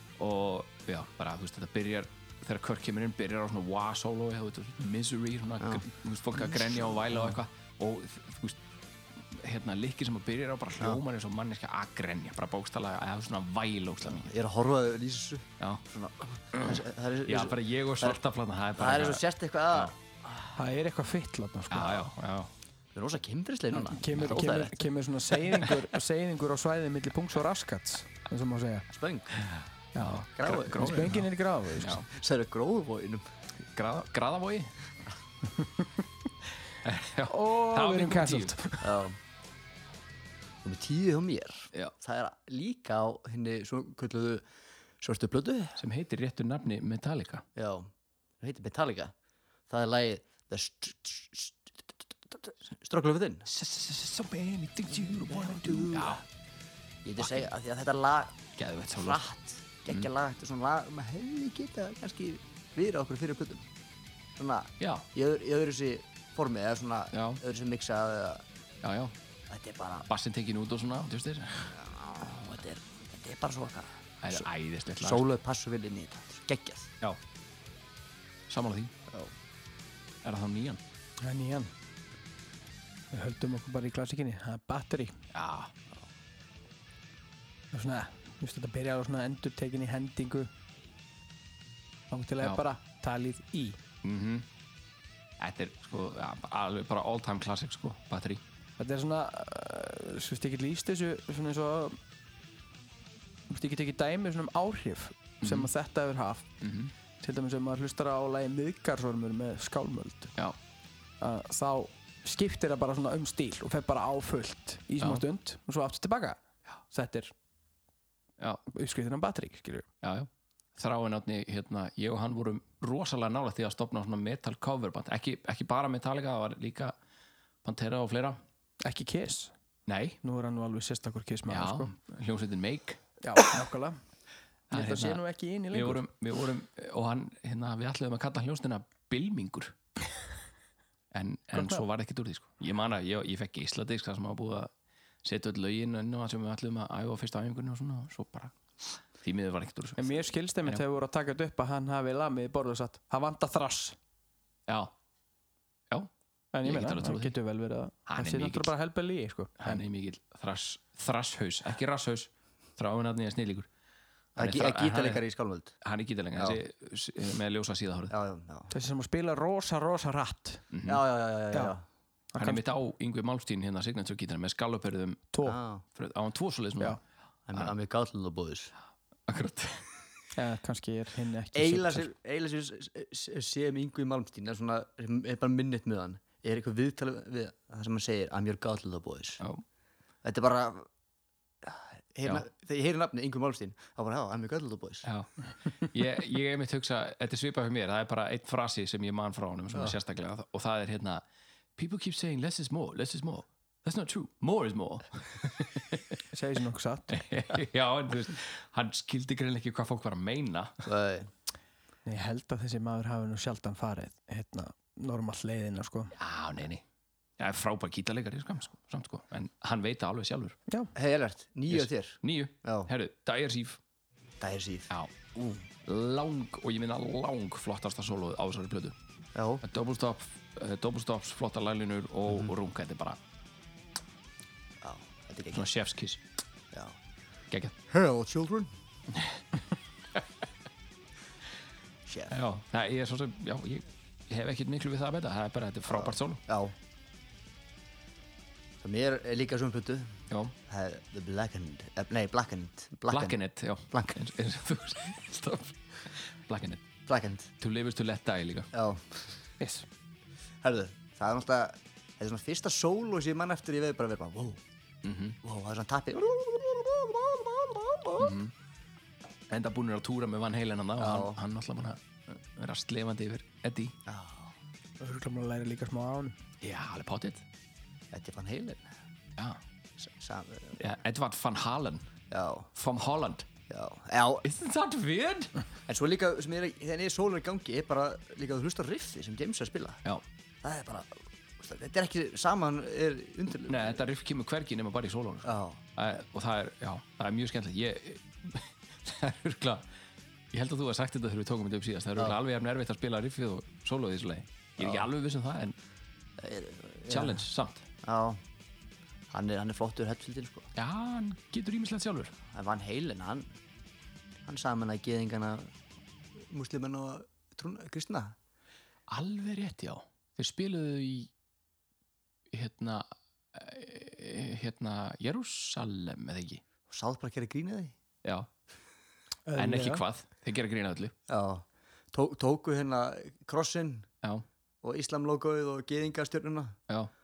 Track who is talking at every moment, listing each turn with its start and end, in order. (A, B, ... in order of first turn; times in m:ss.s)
0:00.2-0:08.6 A
0:06.4-0:07.4 B
0:09.2-0:14.3 A
0:14.0-0:18.2 B
0:16.5-0:19.9 A
0:18.8-0:20.6 B
0:20.6-0:22.1 C
0:21.7-0:22.5 A
0:22.9-0:24.9 B
0:23.7-0:28.9 C
0:28.9-0:29.4 B
0:29.4-0:31.3 A
0:30.0-0:32.0 C
0:30.4-0:31.2 B
0:31.8-0:32.0 A
0:32.0-0:33.2 B
0:33.7-0:34.7 A
0:36.8-0:38.6 A
0:37.3-0:38.9 C
0:38.8-0:39.2 B
0:40.6-0:44.5 B
0:45.0-0:45.8 B
0:45.8-0:47.4 A
0:47.6-0:49.1 B
0:49.7-0:53.5 B
0:53.5-0:56.2 A
0:55.3-0:56.2 B
0:57.0-0:58.4 B
0:57.2-0:57.5 A
0:58.6-0:59.2 A
0:58.9-1:03.7 B
1:04.4-1:08.4 B
1:04.8-1:05.0 A
1:07.1-1:07.4 A
1:08.8-1:09.1 A
1:09.5-1:10.1 B
1:10.1-1:11.7 A
1:11.7-1:16.9 B
1:14.2-1:15.2 A
1:18.5-1:18.9 A
1:19.1-1:19.3 B
1:20.2-1:20.8 A
1:21.2-1:21.7 C
1:23.1-1:25.2 C
1:25.3-1:25.7 A
1:27.7-1:30.5 C
1:32.1-1:33.8 C
1:34.0-1:34.5 A
1:35.4-1:38.4 A
1:38.8-1:42.0 C
1:43.5-1:46.5 C
1:45.4-1:45.7 A
1:46.6-1:46.9 A
1:47.2-1:50.3 C
1:51.2-1:56.4 C
1:56.9-1:57.3 C
1:58.7-1:59.9 C
2:00.0-2:06.9 A
2:07.6-2:08.4 A
2:08.8-2:09.5 C
2:09.9-2:10.2 A
2:10.2-2:11.9 C
2:11.5-2:13.0 A
2:13.2-2:14.0 C
2:14.7-2:19.8 A
2:14.7-2:16.0 C
2:21.1-2:24.7 A
2:21.5-2:21.8 C
2:25.2-2:28.5 A
2:29.1-2:30.8 A
2:30.0-2:34.0 C
2:34.7-2:34.9 A
2:36.5-2:39.8 C
2:36.6-2:37.4 A
2:38.1-2:38.7 A
2:39.6-2:43.7 A
2:44.4-2:45.2 A
2:44.4-2:45.8 B
2:45.8-2:48.2 A
2:48.1-2:48.7 B
2:48.7-2:50.6 C
2:50.7-2:51.0 A
2:50.9-2:51.8 B
2:52.3-2:52.6 C
2:52.4-2:55.3 A
2:55.3-2:55.6 C
2:55.4-2:55.8 B
2:56.0-2:57.0 A
2:57.5-2:58.7 B
2:59.3-2:59.9 A
3:00.4-3:02.1 C
3:01.5-3:09.4 B
3:10.2-3:10.9 B
3:11.6-3:15.1 B
3:15.0-3:21.2 A
3:21.8-3:26.2 A
3:26.3-3:27.2 C
3:27.1-3:30.7 A
3:30.8-3:31.3 B
3:32.1-3:36.1 C
3:36.2-3:36.8 A
3:37.4-3:40.6 A
3:41.0-3:42.9 B
3:41.7-3:43.8 A
3:44.4-3:45.7 B
3:45.8-3:49.0 A
3:49.4-3:49.6 B
3:49.6-3:53.2 A
3:52.3-3:52.5 B
3:54.8-3:55.7 B
3:55.5-3:56.2 A
3:56.7-3:57.0 B
3:57.9-3:58.7 B
3:59.1-3:59.4 A
4:02.1-4:02.4 B
4:02.3-4:06.4 A
4:05.9-4:06.8 B
4:08.8-4:13.4 B
4:13.1-4:16.8 A
4:13.9-4:14.2 B
4:17.1-4:17.5 B
4:17.6-4:18.7 A
4:18.7-4:19.4 B
4:19.6-4:19.9 C
4:20.6-4:24.6 B
4:25.0-4:25.4 A
4:25.4-4:28.4 B
4:28.2-4:28.5 A
4:29.5-4:34.0 A
4:31.0-4:31.4 B
4:34.1-4:34.5 B
4:35.0-4:36.4 C
4:36.6-4:37.4 A
4:38.1-4:38.9 B
4:40.0-4:40.8 B
4:40.8-4:42.1 A
4:42.3-4:42.7 B
4:42.8-4:43.5 A
4:43.7-4:44.5 B
4:44.4-4:45.5 A
4:45.9-4:50.0 B
4:50.6-4:54.0 B
4:53.7-4:59.8 A
4:55.4-4:55.8 B
5:00.5-5:05.8 A
5:04.8-5:05.1 B
5:06.4-5:07.5 B
5:07.1-5:07.8 A
5:08.0-5:08.4 B
5:09.3-5:10.7 B
5:10.8-5:12.3 A
5:12.5-5:13.5 B
5:14.5-5:15.7 B
5:16.4-5:18.4 B
5:19.1-5:21.3 A
5:22.5-5:26.6 A
5:26.9-5:28.0 B
5:29.5-5:30.0 C
5:29.6-5:31.1 A
5:31.3-5:34.1 B
5:34.8-5:36.8 B